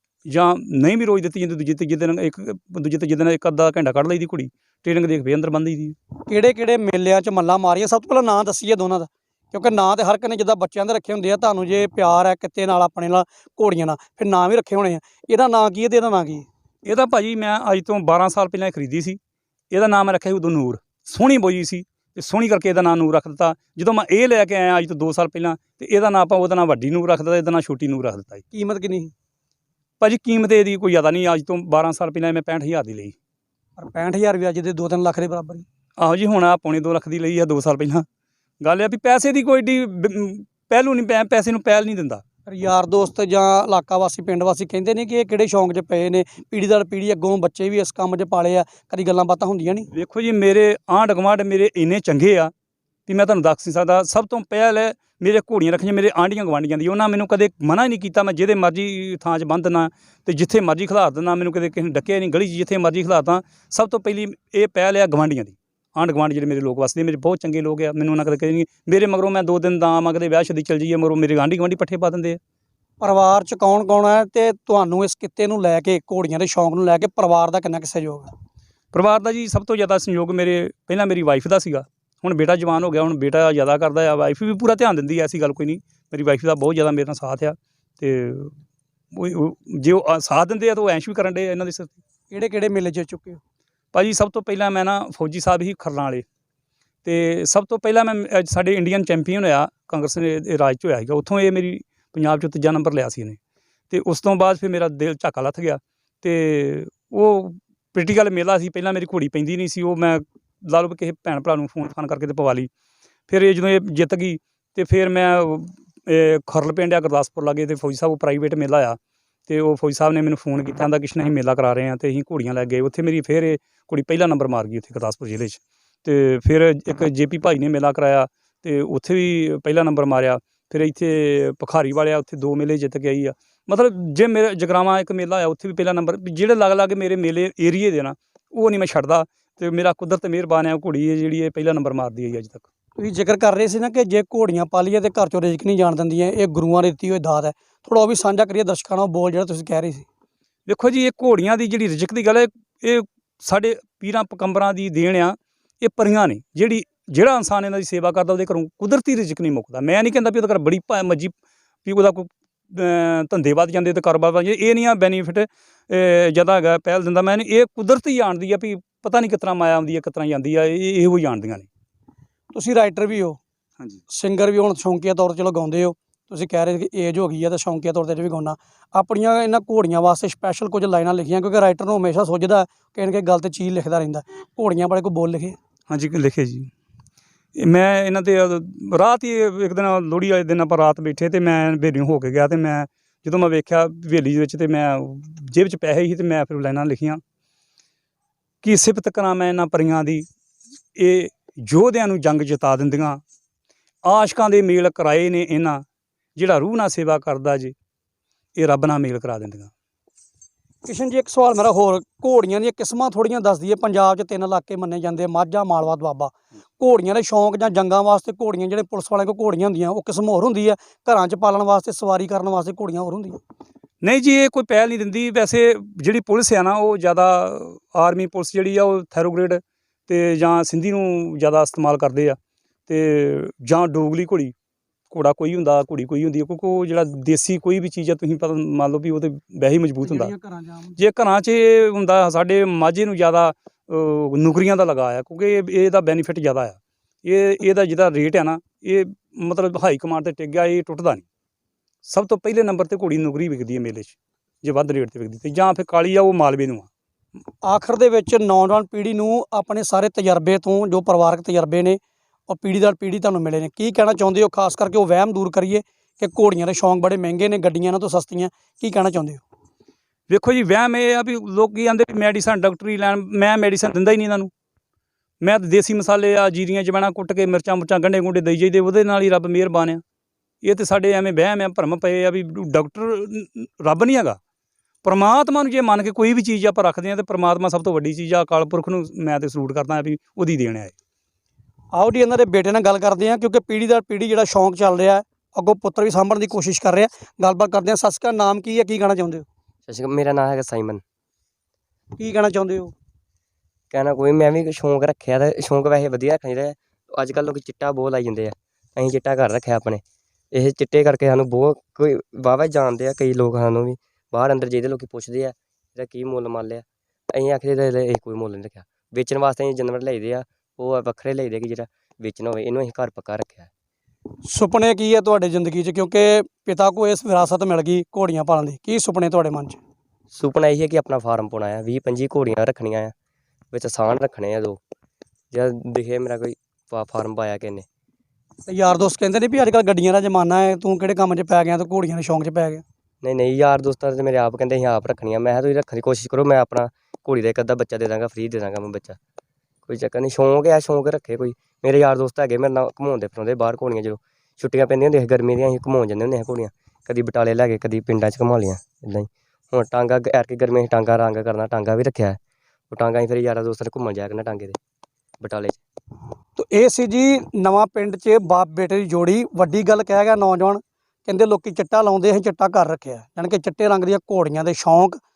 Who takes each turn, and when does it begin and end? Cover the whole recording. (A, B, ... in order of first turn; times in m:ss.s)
0:00.3-0:06.0 A
0:06.3-0:16.5 B
0:16.8-0:19.2 A
0:19.7-0:28.4 A
0:28.5-0:29.1 B
0:30.0-0:33.1 A
0:33.8-0:35.6 B
0:36.0-0:38.0 A
0:38.6-0:42.2 A
0:42.5-0:49.9 B
0:49.9-0:52.5 A
0:53.0-1:12.4 A
1:13.0-1:18.3 B
1:18.9-1:28.5 A
1:29.1-1:32.0 A
1:32.3-1:33.4 B
1:33.9-1:36.2 A
1:37.0-1:43.4 A
1:43.9-1:52.7 A
1:53.3-2:22.6 A
2:23.0-2:30.0 B
2:30.7-2:51.7 A
2:52.5-2:53.4 B
2:54.1-3:05.6 B
3:05.9-3:06.7 A
3:07.6-3:17.2 A
3:18.6-3:20.2 A
3:20.9-3:23.2 A
3:24.0-3:25.8 A
3:26.4-3:27.7 A
3:28.6-3:29.7 A
3:30.8-3:43.4 B
3:44.0-3:54.5 A
3:55.1-4:00.3 A
4:00.0-4:01.0 B
4:01.0-4:11.2 A
4:12.0-4:16.9 A
4:17.6-4:29.4 B
4:30.3-4:34.5 A
4:35.4-4:40.0 A
4:40.6-4:44.4 A
4:45.0-4:50.9 A
4:51.9-4:59.4 B
4:59.9-5:01.0 C
5:02.2-5:02.9 B
5:03.9-5:23.7 C
5:24.5-5:29.8 B
5:30.3-5:33.1 C
5:33.7-5:34.8 C
5:35.5-5:37.8 C
5:38.7-5:42.8 B
5:43.2-5:49.2 C
5:49.8-6:02.4 C
6:02.9-6:04.8 C
6:05.4-6:05.8 C
6:06.6-6:15.2 B